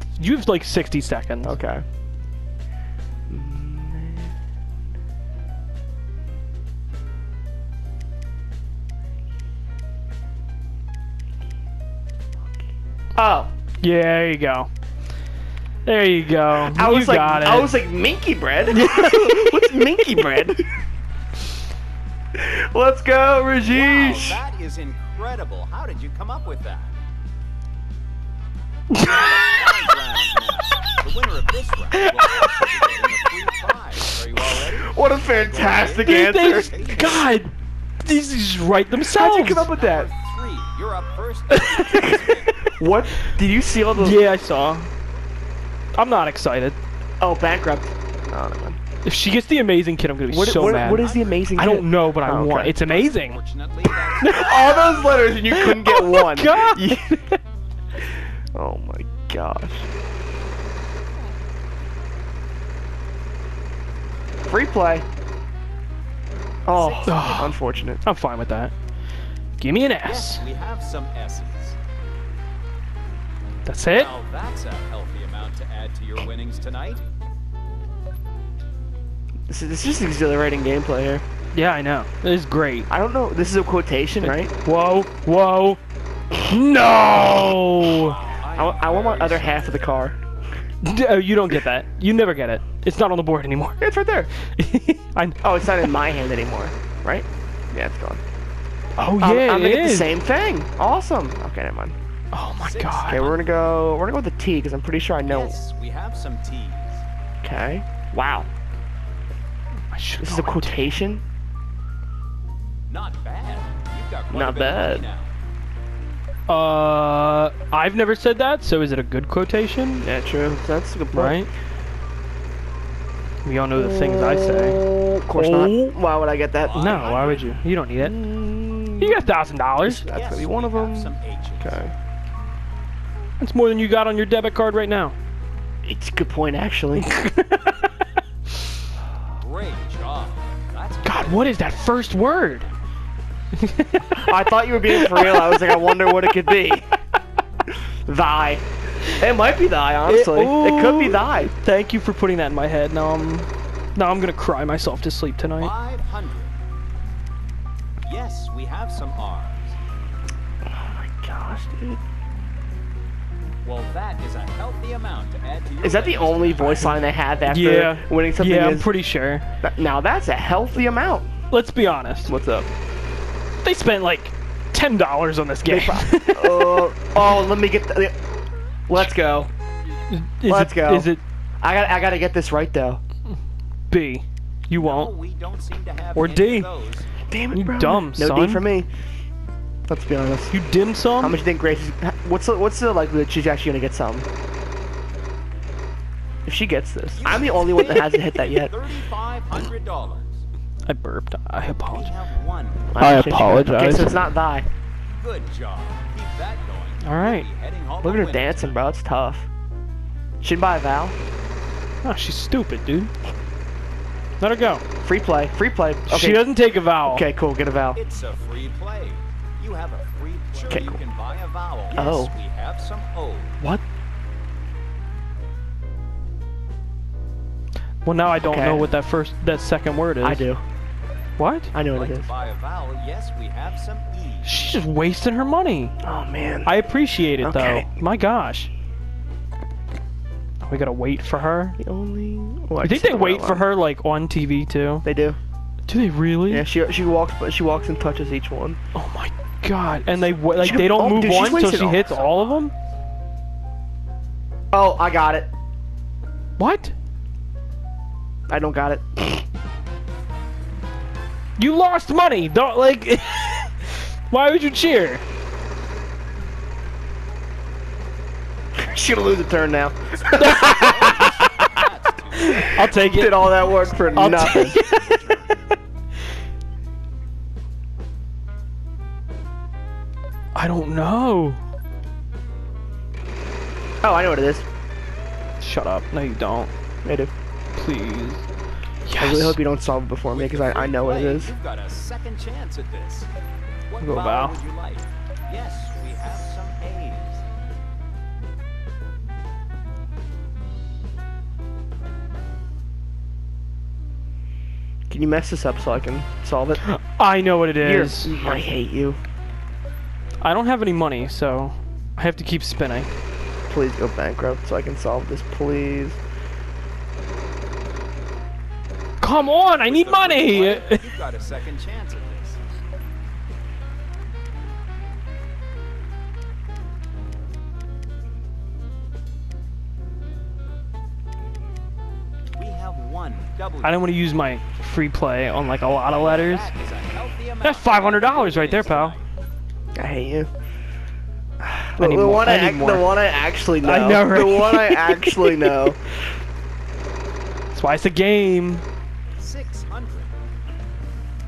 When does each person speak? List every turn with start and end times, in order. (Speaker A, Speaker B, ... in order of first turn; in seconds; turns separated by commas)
Speaker A: 0.2-1.6, Speaker B: 1.4-1.8, Speaker B: 3.3-4.3, Speaker B: 13.1-13.5, Speaker A: 13.8-14.7, Speaker A: 15.8-17.7, Speaker B: 16.7-20.6, Speaker A: 18.7-19.6, Speaker B: 22.3-24.4, Speaker C: 23.6-26.9, Speaker A: 28.9-29.3, Speaker C: 29.0-37.3, Speaker A: 31.9-32.5, Speaker B: 34.6-37.2, Speaker A: 36.0-37.5, Speaker A: 38.0-39.7, Speaker B: 39.0-40.1, Speaker C: 39.5-42.7, Speaker B: 41.9-44.2, Speaker A: 44.0-44.9, Speaker A: 45.9-46.8, Speaker B: 47.2-48.8, Speaker A: 49.0-51.0, Speaker B: 50.3-52.8, Speaker C: 50.4-51.5, Speaker A: 51.5-53.4, Speaker C: 52.8-54.4, Speaker A: 54.2-57.4, Speaker B: 54.2-57.1, Speaker B: 58.5-59.9, Speaker B: 64.4-65.0, Speaker B: 66.7-68.0, Speaker C: 66.8-67.1, Speaker A: 67.0-68.7, Speaker A: 69.6-70.4, Speaker C: 70.0-71.8, Speaker A: 73.7-74.1, Speaker C: 73.9-77.0, Speaker B: 79.5-81.2, Speaker A: 81.5-82.9, Speaker B: 82.9-84.5, Speaker A: 84.2-85.8, Speaker A: 86.4-88.2, Speaker C: 87.9-89.5, Speaker B: 88.5-90.2, Speaker A: 90.8-93.8, Speaker B: 93.8-94.3, Speaker A: 94.4-95.9, Speaker B: 95.4-98.2, Speaker A: 99.0-100.1, Speaker B: 99.2-101.9, Speaker A: 102.3-103.3, Speaker C: 102.6-103.5, Speaker B: 103.0-105.6, Speaker C: 105.3-107.0, Speaker B: 107.4-108.5, Speaker A: 109.9-110.9, Speaker B: 110.2-111.2, Speaker C: 112.9-115.3, Speaker B: 114.3-115.0, Speaker A: 116.5-120.0, Speaker B: 120.0-121.4, Speaker A: 121.1-121.5, Speaker A: 123.4-124.8, Speaker B: 123.7-127.1, Speaker A: 125.3-125.9, Speaker C: 126.6-127.6, Speaker A: 126.7-128.2, Speaker B: 128.0-129.2, Speaker A: 129.0-130.0, Speaker B: 129.8-131.9, Speaker C: 130.1-131.9, Speaker A: 133.4-135.2, Speaker B: 135.8-137.1, Speaker A: 137.1-137.7, Speaker C: 139.4-142.1, Speaker A: 141.0-142.7, Speaker A: 143.5-144.2, Speaker B: 144.1-146.8, Speaker A: 144.9-145.5, Speaker B: 148.1-151.5, Speaker A: 150.1-155.7, Speaker C: 155.6-156.6, Speaker C: 158.0-159.8, Speaker B: 160.7-162.0, Speaker C: 163.6-167.1, Speaker B: 165.8-168.9, Speaker A: 167.5-169.4, Speaker B: 169.6-171.3, Speaker A: 171.5-172.3, Speaker B: 172.3-172.7, Speaker A: 173.6-176.9, Speaker B: 175.6-178.2, Speaker B: 178.9-179.5, Speaker A: 180.1-181.2, Speaker B: 180.5-183.0, Speaker A: 183.9-185.1, Speaker C: 184.8-187.1, Speaker A: 186.1-186.7, Speaker B: 187.3-188.9, Speaker A: 187.5-188.7, Speaker B: 189.9-190.6, Speaker A: 190.5-191.4, Speaker B: 191.2-194.3, Speaker B: 196.4-198.7, Speaker C: 197.1-200.4, Speaker A: 200.8-202.1, Speaker C: 201.9-202.9, Speaker B: 202.9-204.7, Speaker A: 203.0-204.2, Speaker C: 205.2-208.8, Speaker A: 207.0-207.4, Speaker B: 208.0-209.5, Speaker B: 210.4-211.2, Speaker A: 212.0-213.1, Speaker A: 214.4-214.8, Speaker B: 215.0-216.5, Speaker A: 216.1-217.2, Speaker B: 217.0-218.0, Speaker C: 217.9-223.6, Speaker B: 220.7-221.0, Speaker B: 221.9-222.3, Speaker A: 228.0-230.4, Speaker B: 228.4-228.9, Speaker B: 230.2-230.6, Speaker A: 231.4-231.7, Speaker B: 231.7-232.3, Speaker C: 231.9-234.5, Speaker A: 234.4-235.9, Speaker B: 236.0-236.7, Speaker A: 236.6-238.7, Speaker B: 237.4-237.9, Speaker A: 240.6-241.8, Speaker B: 241.8-243.7, Speaker A: 242.8-245.1, Speaker B: 245.0-245.4, Speaker A: 245.9-246.7, Speaker B: 246.5-248.8, Speaker A: 248.9-252.7, Speaker C: 250.0-250.6, Speaker B: 250.5-252.1, Speaker C: 251.5-252.7, Speaker B: 254.7-255.5, Speaker A: 256.6-256.9, Speaker B: 258.5-259.4, Speaker A: 261.6-265.2, Speaker B: 268.8-271.4, Speaker C: 270.2-272.9, Speaker A: 270.4-271.5, Speaker A: 272.3-275.2, Speaker B: 272.8-274.8, Speaker C: 275.1-275.4, Speaker A: 280.5-281.6, Speaker B: 284.0-284.6, Speaker A: 285.6-286.7, Speaker B: 287.0-287.3, Speaker A: 287.8-288.4, Speaker A: 289.1-289.6, Speaker B: 289.2-291.5, Speaker C: 290.3-293.3, Speaker C: 293.9-297.4, Speaker A: 294.0-294.5, Speaker B: 305.1-306.8, Speaker A: 306.8-308.3, Speaker B: 307.8-309.2, Speaker A: 310.4-313.1, Speaker B: 313.7-316.2, Speaker A: 319.2-321.0, Speaker C: 319.8-322.6, Speaker C: 332.6-334.0, Speaker A: 333.8-336.7, Speaker C: 336.0-339.2, Speaker A: 337.6-339.1, Speaker B: 339.9-340.5, Speaker B: 341.6-346.0, Speaker A: 342.0-343.1, Speaker A: 343.8-345.9, Speaker A: 347.7-348.8, Speaker C: 349.4-350.4